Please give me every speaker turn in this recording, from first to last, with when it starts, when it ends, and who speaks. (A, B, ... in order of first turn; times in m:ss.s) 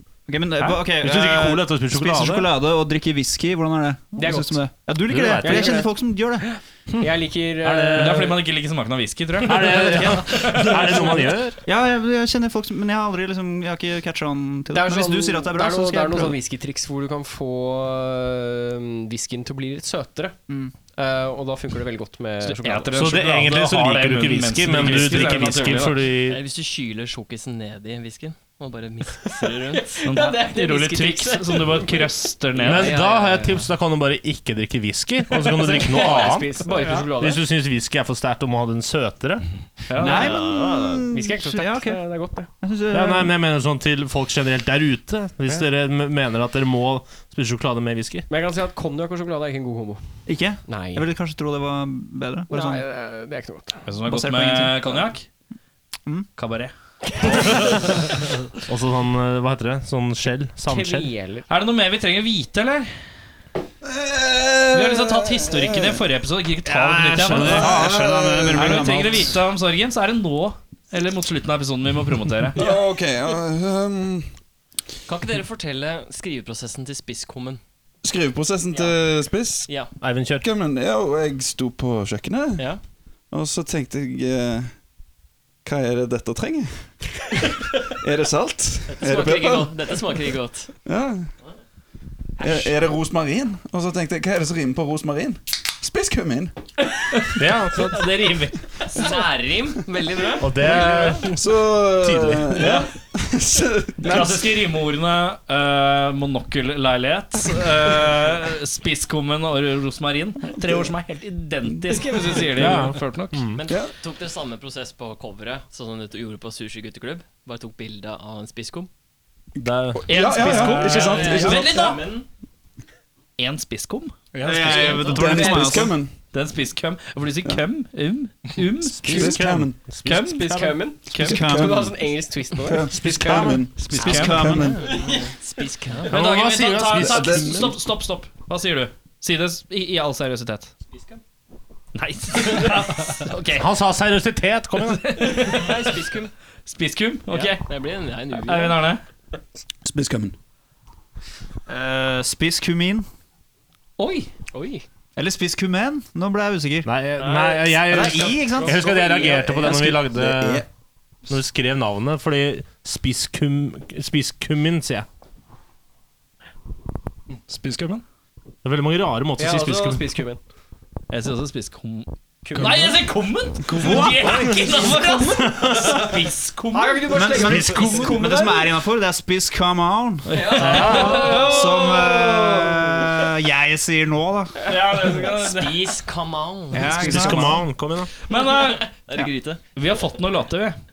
0:00.3-0:06.5 A
0:00.7-0:02.5 B
0:04.2-0:04.6 C
0:05.1-0:05.8 B
0:05.4-0:05.9 C
0:06.4-0:08.4 C
0:07.6-0:08.4 B
0:08.0-0:11.2 D
0:09.4-0:11.6 B
0:11.6-0:16.4 A
0:14.7-0:20.4 C
0:21.0-0:23.4 C
0:22.4-0:26.0 D
0:23.0-0:26.4 B
0:24.8-0:25.4 C
0:26.2-0:29.9 E
0:29.2-0:33.7 C
0:30.0-0:33.0 D
0:32.6-0:39.4 B
0:35.3-0:37.4 C
0:36.7-0:37.1 D
0:39.9-0:40.4 D
0:40.0-0:42.0 A
0:40.0-0:42.5 C
0:42.6-0:43.4 A
0:42.9-0:48.2 B
0:48.3-0:50.0 C
0:50.2-0:52.8 A
0:50.6-0:51.0 C
0:52.5-0:53.9 C
0:53.9-0:55.2 D
0:54.0-0:55.0 A
0:56.4-0:56.7 D
0:57.2-0:57.5 C
0:57.4-0:58.0 B
0:58.7-1:01.1 B
1:00.6-1:01.5 C
1:01.5-1:02.9 D
1:03.8-1:06.0 F
1:04.7-1:07.8 D
1:07.1-1:07.9 B
1:07.1-1:09.3 A
1:07.2-1:09.1 F
1:08.5-1:12.6 D
1:12.5-1:14.3 F
1:15.1-1:17.6 E
1:18.0-1:22.7 F
1:18.7-1:19.0 E
1:20.0-1:20.4 B
1:23.3-1:24.7 F
1:25.6-1:29.7 F
1:28.9-1:30.7 E
1:30.8-1:31.3 F
1:32.4-1:36.5 F
1:37.4-1:38.1 B
1:37.7-1:39.3 D
1:38.9-1:41.2 E
1:40.4-1:41.4 B
1:41.3-1:44.7 F
1:42.0-1:42.8 B
1:44.0-1:53.4 D
1:51.8-1:52.9 C
1:52.5-1:53.6 B
1:53.6-1:58.9 E
1:59.6-2:00.1 B
2:00.0-2:01.9 F
2:00.0-2:02.0 D
2:00.4-2:01.4 G
2:00.9-2:02.2 E
2:03.4-2:04.2 D
2:04.3-2:05.1 G
2:04.4-2:06.0 A
2:04.6-2:06.1 F
2:04.7-2:05.7 D
2:06.3-2:09.4 D
2:09.0-2:09.8 F
2:09.0-2:10.5 B
2:10.0-2:11.4 D
2:10.4-2:13.5 C
2:11.1-2:11.9 A
2:11.2-2:11.9 F
2:12.6-2:14.8 F
2:13.0-2:14.8 A
2:13.9-2:14.6 D
2:14.9-2:16.1 E
2:16.1-2:17.8 B
2:16.1-2:20.7 D
2:16.9-2:17.8 F
2:20.9-2:21.2 E
2:21.9-2:23.7 D
2:23.5-2:25.4 B
2:24.8-2:26.0 D
2:25.4-2:26.3 E
2:26.6-2:27.6 D
2:27.3-2:28.8 E
2:28.3-2:29.0 D
2:29.8-2:30.3 F
2:31.7-2:33.0 A
2:34.0-2:34.3 D
2:34.5-2:34.8 E
2:34.6-2:34.8 C
2:35.2-2:36.9 A
2:36.8-2:40.6 B
2:37.2-2:38.0 E
2:37.8-2:39.8 A
2:38.9-2:39.4 C
2:39.2-2:40.6 F
2:41.3-2:45.0 B
2:47.5-2:48.0 G
2:48.6-2:50.2 B
2:49.4-2:50.4 C
2:51.1-2:57.2 D
2:52.4-2:52.8 C
2:52.6-2:53.1 G
2:53.6-2:54.2 G
2:53.9-2:56.1 C
2:54.0-2:56.0 B
2:56.7-2:58.7 C
2:57.0-3:04.6 A
2:57.3-2:58.3 B
3:00.3-3:02.7 C
3:00.4-3:01.4 E
3:00.4-3:01.8 D
3:00.6-3:01.2 B
3:04.6-3:06.0 D
3:05.1-3:07.5 E
3:06.7-3:07.7 A
3:06.8-3:08.1 B
3:08.3-3:08.9 D
3:08.3-3:09.6 E
3:09.7-3:10.8 D